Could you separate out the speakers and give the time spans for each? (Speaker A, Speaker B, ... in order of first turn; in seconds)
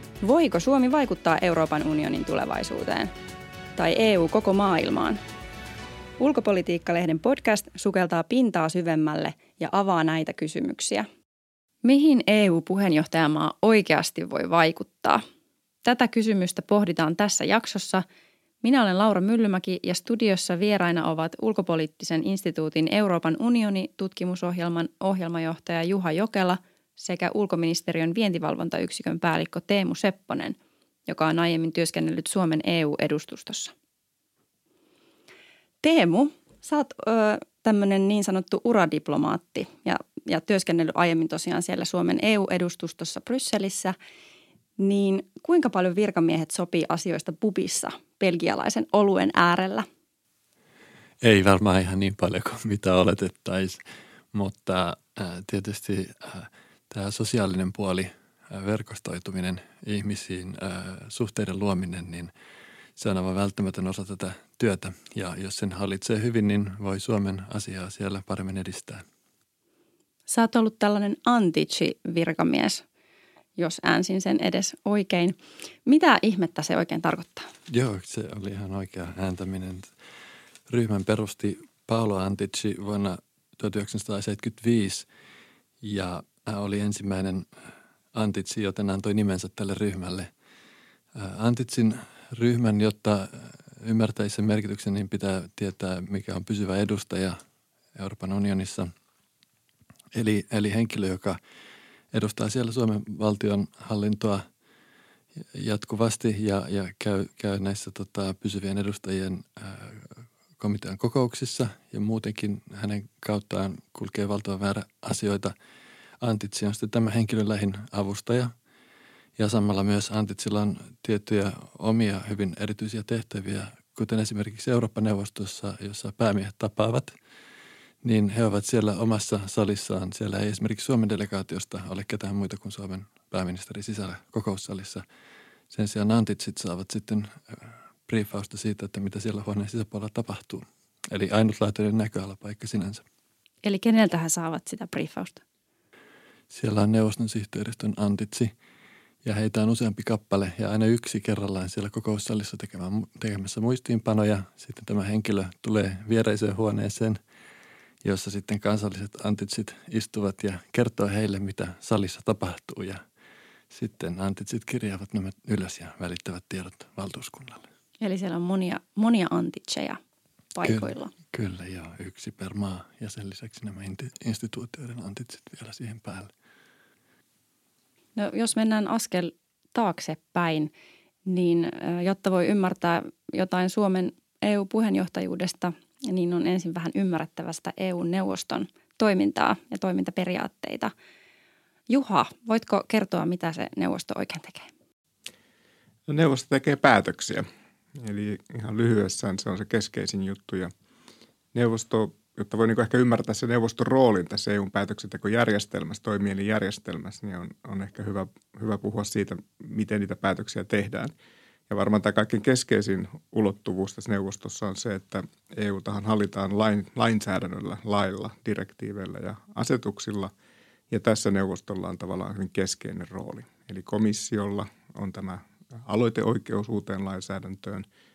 Speaker A: 0.2-3.1, 3.8-5.2, 6.2-11.1, 11.8-15.2, 15.8-18.0, 18.6-33.7, 35.8-43.9, 44.8-49.9, 70.3-72.8, 73.6-77.5, 143.6-145.4, 168.0-170.0, 170.5-171.1, 178.2-180.7, 181.3-190.9, 191.9-194.7
Speaker B: 51.2-53.8, 54.3-62.3, 63.0-69.0, 77.7-79.9, 80.7-85.1, 85.8-87.5, 88.1-90.3, 91.1-97.4, 97.9-98.9, 100.1-101.4, 102.1-104.5, 105.5-115.5, 116.2-118.5, 119.4-127.1, 128.0-135.0, 135.7-143.0, 146.5-148.5, 149.2-157.2, 158.0-163.0, 163.7-167.6, 170.6-176.3
Speaker C: 196.1-197.4, 197.9-200.7, 201.5-211.1, 211.7-220.3, 220.9-227.8